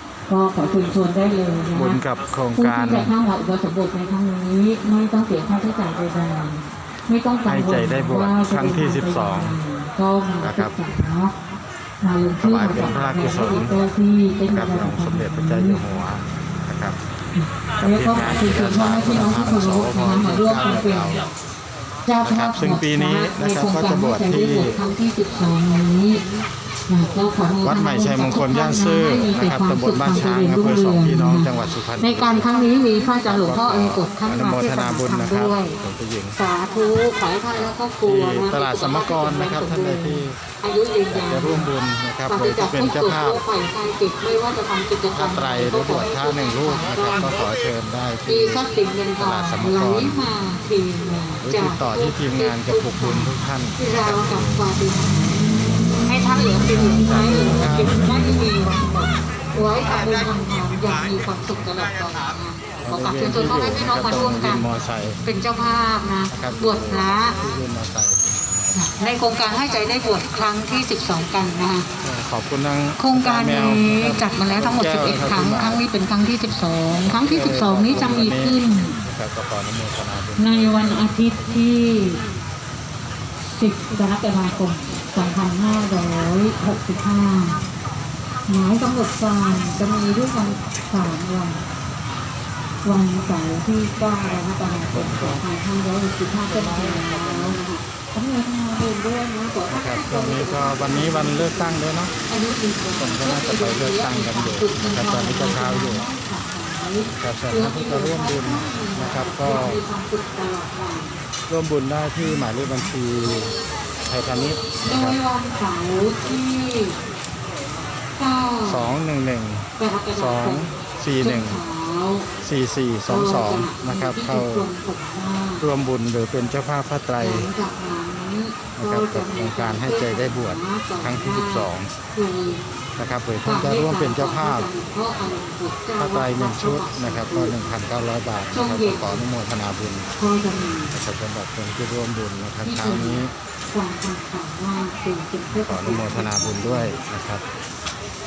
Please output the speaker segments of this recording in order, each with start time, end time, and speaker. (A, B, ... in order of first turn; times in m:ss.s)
0:00.3-0:02.0 A
0:01.7-0:03.1 B
0:02.5-0:11.3 A
0:07.4-0:09.6 B
0:10.4-0:10.8 B
0:12.0-0:15.8 A
0:12.4-0:13.8 B
0:14.5-0:17.0 B
0:17.3-0:21.2 A
0:17.8-0:21.3 B
0:22.0-0:26.2 A
0:22.2-0:24.7 B
0:26.9-0:35.8 A
0:27.6-0:32.5 B
0:33.2-0:36.4 B
0:36.4-0:41.7 A
0:37.5-0:40.4 B
0:41.1-0:43.4 B
0:42.3-0:47.3 A
0:45.1-0:48.6 B
0:48.2-0:55.4 A
0:49.2-0:50.2 B
0:51.4-0:54.6 B
0:56.0-1:04.6 A
0:56.6-0:57.9 B
1:02.8-1:05.2 B
1:05.2-1:07.4 A
1:06.3-1:08.7 B
1:08.7-1:11.9 A
1:12.0-1:15.8 B
1:13.0-1:19.0 A
1:17.1-1:21.1 B
1:20.4-1:22.2 A
1:23.6-1:27.6 A
1:28.5-1:31.6 A
1:32.8-1:51.2 A
1:34.9-1:35.4 B
1:36.4-1:37.6 B
1:39.7-1:42.1 B
1:43.0-1:46.0 B
1:47.2-1:49.8 B
1:51.5-1:53.5 B
1:54.1-1:55.2 B
1:54.8-1:57.0 A
1:58.2-1:58.9 A
1:58.6-2:01.6 B
1:59.8-2:00.6 A
2:01.2-2:02.3 A
2:02.4-2:04.7 B
2:03.1-2:05.6 A
2:05.6-2:07.5 B
2:07.2-2:12.6 A
2:08.8-2:11.9 B
2:13.0-2:14.7 B
2:13.4-2:17.7 A
2:16.0-2:20.1 B
2:18.5-2:19.2 A
2:20.2-2:21.0 A
2:20.9-2:23.3 B
2:22.6-2:26.9 A
2:25.6-2:27.4 B